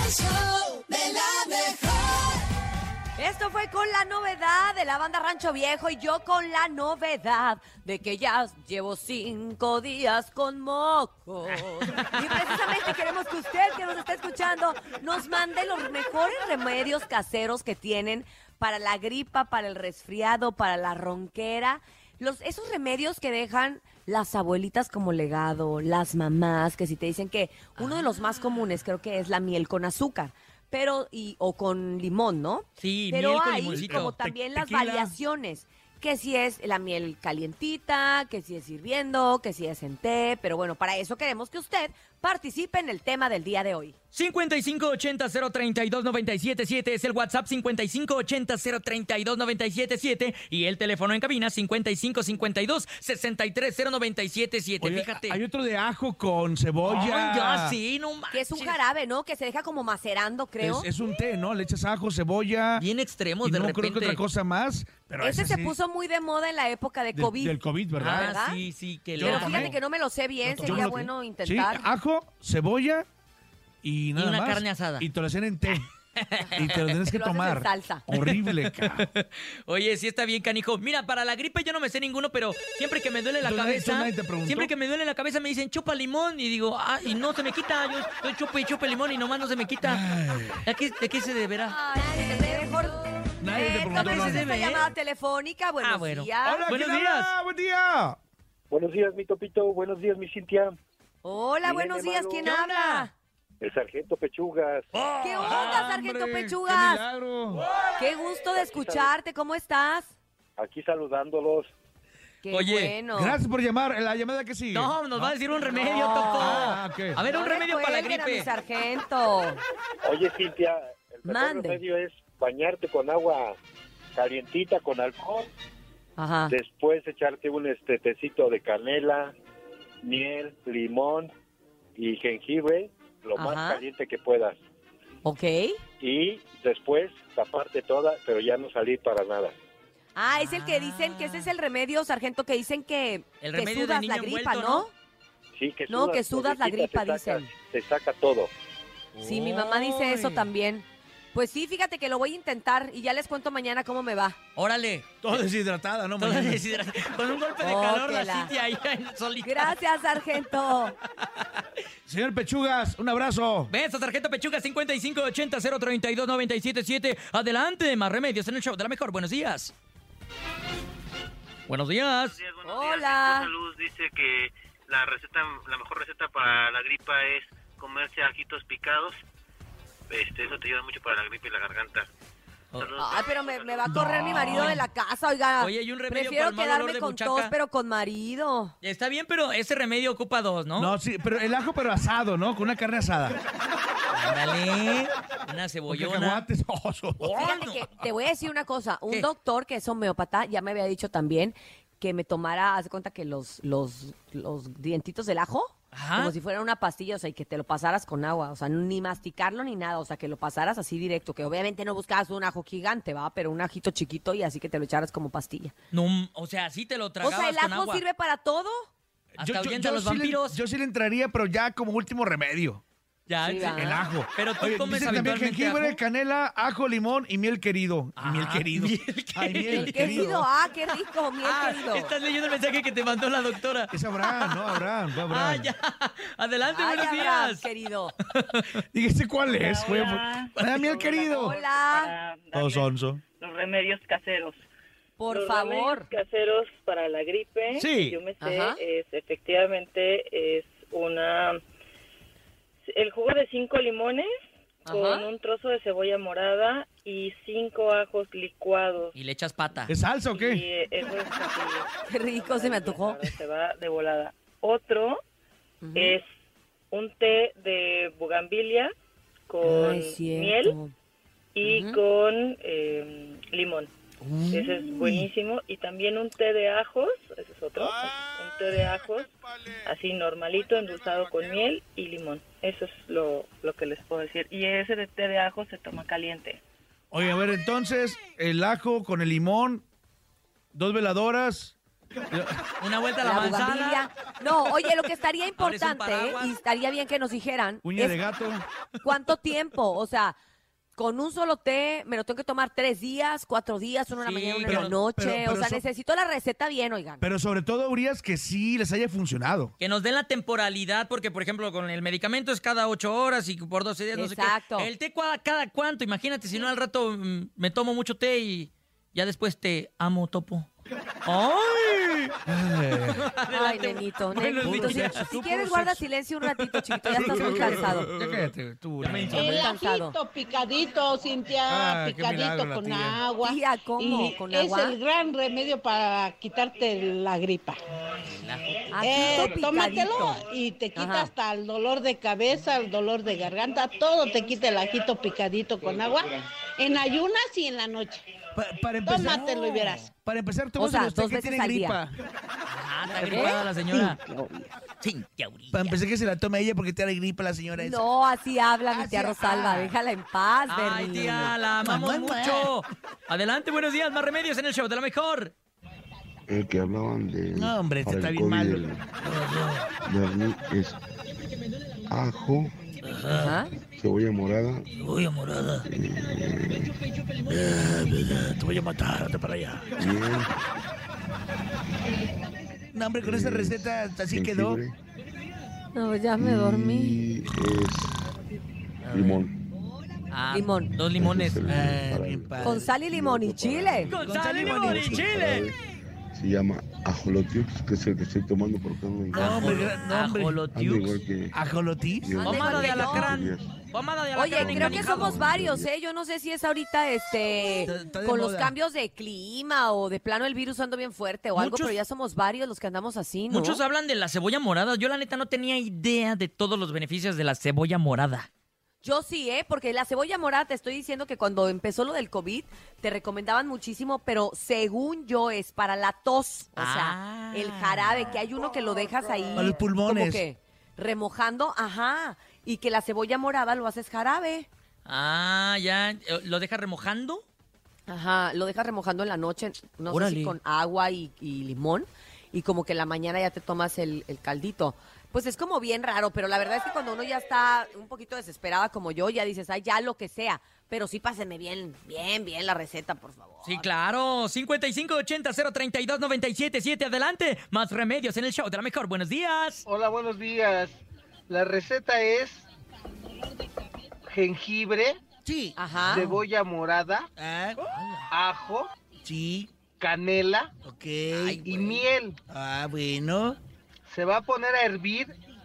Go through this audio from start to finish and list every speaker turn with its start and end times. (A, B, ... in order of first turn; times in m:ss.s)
0:00.8-0:01.7 A
0:03.2-0:43.9 A
0:11.5-0:12.4 B
0:27.8-0:28.7 B
0:32.8-0:34.1 B
0:33.8-0:35.1 C
0:44.1-0:55.4 B
0:54.8-0:57.8 C
0:56.8-0:58.8 B
0:58.3-1:00.9 A
1:00.6-1:02.8 C
1:02.8-1:04.2 B
1:03.4-1:05.8 C
1:05.2-1:07.6 A
1:07.1-1:08.3 C
1:08.0-1:09.8 B
1:08.1-1:08.6 A
1:09.2-1:09.7 C
1:09.2-1:11.8 A
1:10.4-1:11.0 B
1:10.6-1:13.1 C
1:13.8-1:15.9 C
1:14.2-1:15.0 B
1:15.7-1:16.9 B
1:16.5-1:19.1 C
1:17.0-1:18.0 A
1:18.2-1:30.0 B
1:23.4-1:24.7 C
1:29.8-1:30.6 C
1:30.6-1:31.7 B
1:31.6-1:36.6 A
1:33.4-1:34.5 C
1:33.9-1:34.9 B
1:35.8-1:37.3 B
1:36.4-1:38.2 C
1:38.7-1:40.8 D
1:41.2-1:43.1 A
1:41.6-1:42.5 D
1:42.4-1:43.1 B
1:43.6-1:44.9 D
1:44.9-1:45.9 B
1:45.2-1:47.0 A
1:45.3-1:47.6 C
1:48.0-1:50.1 A
1:48.5-1:49.1 D
1:50.6-1:51.7 D
1:52.4-1:53.4 A
1:52.5-1:52.9 B
1:53.1-1:55.4 C
1:54.7-1:58.5 B
1:55.6-1:56.8 A
1:56.4-1:57.2 C
1:57.3-1:59.6 A
2:00.0-2:03.6 D
2:01.2-2:01.8 A
2:04.2-2:05.5 D
2:06.2-2:06.6 A
2:06.5-2:09.3 D
2:10.0-2:11.3 D
2:12.0-2:14.6 D
2:13.4-2:13.8 A
2:15.2-2:15.8 A
2:16.0-2:19.5 D
2:20.2-2:24.9 A
2:20.3-2:21.5 B
2:23.4-2:24.9 B
2:25.6-2:28.5 D
2:25.9-2:27.5 A
2:29.2-2:30.5 B
2:29.2-2:34.4 A
2:34.6-2:35.4 B
2:35.2-2:36.6 C
2:36.2-2:39.8 B
2:37.6-2:38.5 A
2:39.4-2:41.0 A
2:41.2-2:41.6 B
2:42.0-2:43.7 C
2:43.7-2:49.7 B
2:51.7-2:52.4 B
2:52.3-2:59.2 E
2:52.6-2:53.5 A
3:00.1-3:02.1 E
3:02.8-3:03.6 E
3:03.0-3:08.7 A
3:03.8-3:04.8 C
3:04.4-3:04.8 B
3:05.6-3:07.5 B
3:08.8-3:11.0 B
3:10.8-3:13.4 C
3:14.1-3:16.4 B
3:15.9-3:17.4 C
3:17.2-3:17.8 B
3:17.3-3:35.7 A
3:25.9-3:26.3 B
3:35.9-3:38.0 B
3:37.2-3:38.9 A
3:39.3-3:42.8 C
3:39.4-3:40.6 B
3:43.3-3:46.0 B
3:43.4-3:44.0 A
3:43.7-3:50.5 C
3:48.2-3:50.4 B
3:49.6-3:52.1 A
3:51.4-3:57.7 B
3:53.9-3:55.7 C
3:56.7-3:58.1 A
3:58.3-3:58.8 B
3:58.9-4:01.6 C
3:59.5-4:04.6 F
4:01.3-4:02.1 A
4:02.5-4:03.2 C
4:05.2-4:06.1 A
4:05.2-4:11.6 F
4:07.8-4:08.2 B
4:08.4-4:08.8 A
4:12.9-4:14.3 F
4:14.8-4:19.1 F
4:14.8-4:15.3 A
4:19.1-4:19.9 B
4:19.9-4:20.6 C
4:20.3-4:25.2 F
4:22.1-4:23.3 A
4:25.8-4:26.2 A
4:25.9-4:26.2 F
4:26.9-4:28.9 F
4:29.5-4:30.8 F
4:29.6-4:30.9 A
4:31.5-4:33.9 F
4:31.6-4:32.0 A
4:34.2-4:35.1 C
4:34.5-4:39.3 F
4:37.8-4:39.9 C
4:39.8-4:46.6 F
4:40.6-4:41.7 C
4:47.1-4:49.8 C
4:50.7-4:51.8 C
4:52.3-4:52.6 C
4:52.8-4:54.1 B
4:53.2-4:58.2 A
4:55.6-4:56.5 B
4:57.8-4:58.6 C
4:59.0-5:00.4 A
5:01.0-5:07.3 A
5:04.1-5:05.0 B
5:04.7-5:05.8 C
5:07.2-5:09.7 C
5:09.8-5:20.7 B
5:14.1-5:14.9 A
5:21.2-5:22.3 B
5:22.4-5:23.3 C
5:23.1-5:24.0 B
5:23.5-5:28.1 A
5:24.3-5:29.6 C
5:24.6-5:25.2 B
5:27.6-5:27.8 B
5:29.0-5:29.6 B
5:29.3-5:37.8 G
5:29.4-5:30.2 A
5:31.7-5:33.2 C
5:33.4-5:35.0 A
5:38.4-5:39.5 B
5:38.9-5:40.4 A
5:39.0-5:48.2 G
5:40.9-5:41.3 A
5:48.5-5:52.1 C
5:49.0-5:50.1 G
5:49.3-5:49.6 B
5:50.8-5:52.0 A
5:52.7-5:54.2 B
5:53.2-5:54.7 A
5:55.0-5:56.0 B
5:55.7-5:58.0 C
5:57.8-6:01.5 A
5:58.9-5:59.9 C
6:00.7-6:05.5 B
6:01.8-6:02.7 C
6:06.5-6:09.0 H
6:07.5-6:08.8 C
6:09.2-6:09.8 B
6:10.0-6:11.0 H
6:12.1-6:12.8 H
6:13.0-6:13.5 B
6:13.3-6:13.7 A
6:13.9-6:14.9 H
6:15.0-6:15.9 B
6:15.8-6:17.0 H
6:17.5-6:20.1 C
6:20.0-6:20.5 H
6:22.9-6:24.8 C
6:23.2-6:25.0 H
6:25.9-6:27.2 A
6:26.4-6:28.3 H
6:29.0-6:29.5 B
6:29.1-6:29.5 H
6:30.3-6:31.7 B
6:30.5-6:30.9 A
6:31.1-6:35.8 H
6:31.7-6:32.9 C
6:32.6-6:34.1 A
6:34.1-6:35.7 B
6:34.1-6:35.3 C
6:36.3-6:40.0 H
6:39.3-6:41.2 B
6:39.3-6:40.6 C
6:40.7-6:41.6 H
6:41.5-6:42.4 C
6:42.2-6:43.7 H
6:42.4-6:43.3 A
6:42.4-6:45.4 B
6:44.3-6:53.8 A
6:44.5-6:45.9 H
6:47.8-6:48.7 C
6:51.5-6:52.0 B
6:53.5-6:58.5 B
6:59.0-7:14.7 A
7:06.8-7:08.4 B
7:09.6-7:10.4 C
7:15.0-7:17.4 B
7:18.1-7:33.8 A
7:20.1-7:20.6 B
7:33.6-7:39.8 B
7:39.8-7:42.6 I
7:44.3-7:45.2 I
7:45.4-7:46.4 C
7:45.8-7:46.3 A
7:46.1-7:47.3 I
7:47.4-7:47.8 C
7:47.8-7:48.2 B
7:48.3-7:48.9 I
7:49.2-7:49.7 C
7:50.0-7:50.7 I
7:50.8-7:51.7 C
7:51.3-7:52.0 B
7:51.7-7:52.4 I
7:52.5-7:53.6 C
7:54.1-7:55.3 I